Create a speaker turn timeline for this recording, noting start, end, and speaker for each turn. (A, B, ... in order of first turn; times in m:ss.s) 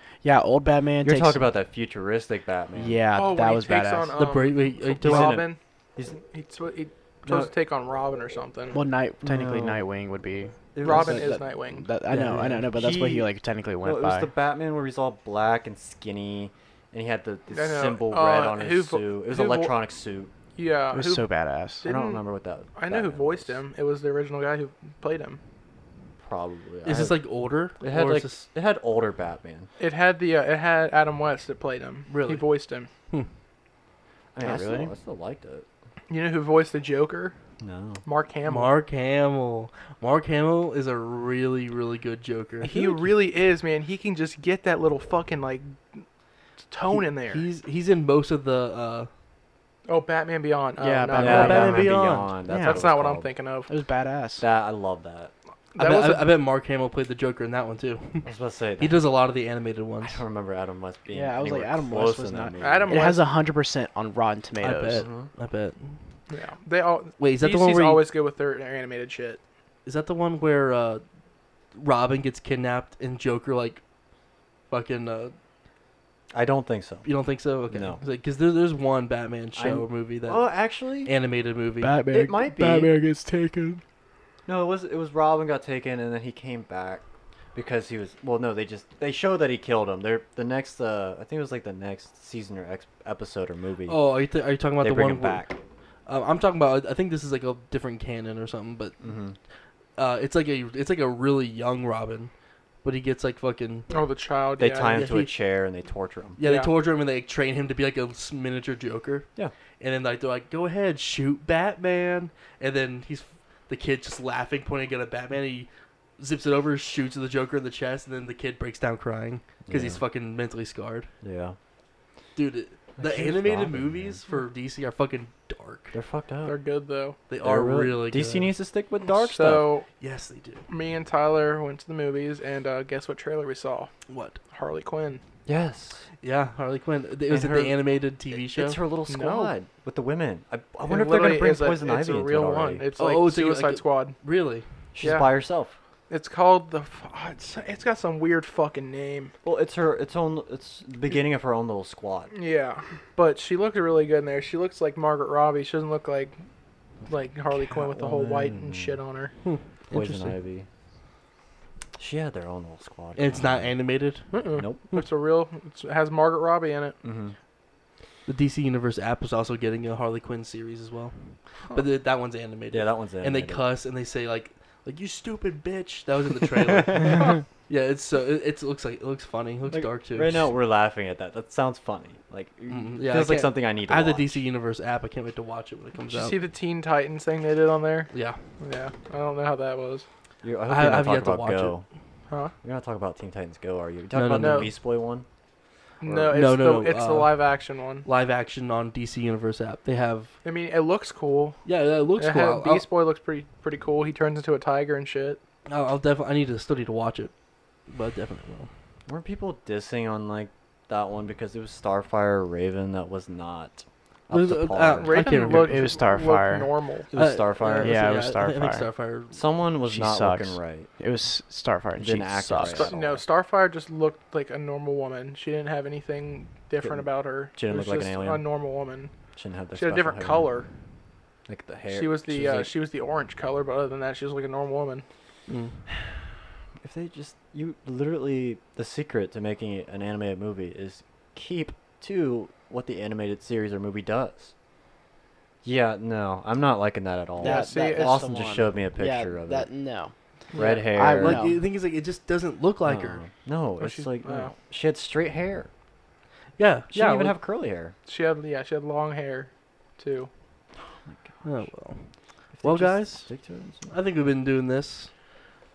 0:00.2-0:01.4 A
0:01.0-0:03.0 B
0:02.8-0:04.2 A
0:03.1-0:05.6 C
0:04.2-0:05.4 D
0:05.0-0:06.2 B
0:06.2-0:08.8 C
0:07.2-0:07.5 B
0:08.7-0:14.3 A
0:09.2-0:09.8 B
0:10.7-0:11.4 B
0:10.8-0:11.8 C
0:12.1-0:12.7 D
0:12.7-0:20.3 B
0:17.5-0:19.8 C
0:20.6-0:21.3 C
0:20.9-0:21.9 A
0:21.8-0:22.2 C
0:21.8-0:23.6 B
0:22.7-0:25.4 C
0:26.2-0:27.2 B
0:26.8-0:28.4 D
0:27.8-0:29.7 B
0:29.8-0:32.9 C
0:32.1-0:32.4 D
0:34.3-0:35.6 B
0:34.4-0:34.9 C
0:36.1-0:37.3 C
0:37.6-0:38.0 B
0:38.0-0:38.7 C
0:38.5-0:43.0 D
0:42.6-0:46.0 C
0:46.7-0:47.4 C
0:46.9-0:49.1 D
0:49.8-0:51.8 C
0:50.8-0:52.8 A
0:51.2-0:53.3 B
0:51.2-0:52.3 D
0:52.5-0:53.7 C
0:53.7-0:54.4 A
0:54.4-0:55.3 B
0:55.7-0:56.3 C
0:55.8-1:00.2 D
0:58.2-0:59.0 B
1:00.0-1:03.1 B
1:01.1-1:05.1 A
1:02.6-1:03.2 C
1:04.6-1:06.0 D
1:05.0-1:05.3 B
1:06.3-1:09.4 C
1:07.2-1:08.0 D
1:09.8-1:11.0 D
1:11.7-1:13.8 D
1:14.7-1:15.3 D
1:16.3-1:17.1 B
1:17.0-1:20.5 D
1:17.7-1:18.0 B
1:19.6-1:21.1 B
1:21.0-1:22.0 D
1:21.8-1:23.8 A
1:22.1-1:22.9 B
1:24.4-1:34.0 B
1:33.9-1:35.5 D
1:34.8-1:35.6 B
1:36.0-1:39.0 D
1:39.0-1:39.4 B
1:40.0-1:42.3 D
1:42.8-1:43.9 D
1:43.9-1:45.1 C
1:44.6-1:46.4 B
1:44.9-1:45.3 D
1:46.4-1:49.3 D
1:46.4-1:46.7 C
1:49.8-2:01.1 D
1:59.6-2:00.0 B
2:01.2-2:01.6 B
2:02.4-2:05.9 D
2:03.0-2:04.2 B
2:05.9-2:06.5 B
2:06.4-2:07.2 C
2:07.3-2:08.5 D
2:07.4-2:09.7 B
2:09.0-2:09.8 C
2:10.0-2:10.6 D
2:10.7-2:13.9 C
2:14.1-2:14.4 D
2:14.5-2:15.2 C
2:15.4-2:16.0 B
2:16.2-2:18.8 D
2:17.3-2:22.8 B
2:19.1-2:19.5 C
2:20.8-2:24.2 C
2:23.0-2:24.6 D
2:24.9-2:25.8 B
2:25.0-2:25.4 C
2:26.1-2:29.3 C
2:29.4-2:32.3 B
2:32.3-2:36.3 C
2:37.1-2:39.3 C
2:37.6-2:39.0 B
2:39.4-2:40.4 D
2:39.9-2:40.7 B
2:42.0-2:43.8 B
2:43.2-2:44.3 D
2:44.3-2:47.0 C
2:44.6-2:44.8 B
2:47.0-2:47.3 B
2:48.2-3:00.4 D
2:52.7-2:53.6 B
2:56.8-2:57.2 B
2:59.7-3:04.4 B
3:02.7-3:06.4 D
3:06.1-3:10.0 C
3:08.1-3:08.4 D
3:10.4-3:11.8 B
3:10.7-3:11.7 D
3:12.6-3:15.2 B
3:14.1-3:14.7 D
3:14.3-3:14.7 C
3:16.0-3:18.0 C
3:16.0-3:16.4 B
3:16.3-3:17.4 D
3:18.0-3:20.3 D
3:20.4-3:21.6 C
3:21.6-3:22.8 D
3:22.2-3:25.4 C
3:25.7-3:27.3 D
3:27.9-3:28.7 D
3:29.1-3:35.2 B
3:34.3-3:35.9 D
3:35.0-3:37.1 C
3:35.5-3:36.7 A
3:37.1-3:38.1 B
3:37.1-3:39.4 D
3:37.8-3:38.8 A
3:39.3-3:40.9 B
3:39.8-3:42.9 A
3:42.0-3:43.2 B
3:42.6-3:49.1 C
3:46.8-3:48.4 B
3:49.4-3:50.5 B
3:49.7-3:50.7 C
3:51.5-3:52.7 B
3:51.9-3:55.0 C
3:55.5-3:55.8 D
3:56.8-4:04.5 B
4:05.6-4:09.7 B
4:07.4-4:10.1 A
4:07.4-4:08.4 C
4:10.5-4:10.9 C
4:10.5-4:11.5 B
4:10.8-4:11.6 A
4:11.1-4:13.2 D
4:12.8-4:15.7 B
4:13.8-4:14.5 C
4:16.6-4:17.4 D
4:16.9-4:17.9 B
4:18.0-4:20.3 C
4:20.8-4:21.6 B
4:21.4-4:22.1 D
4:22.5-4:23.9 B
4:22.6-4:23.3 D
4:23.9-4:25.1 D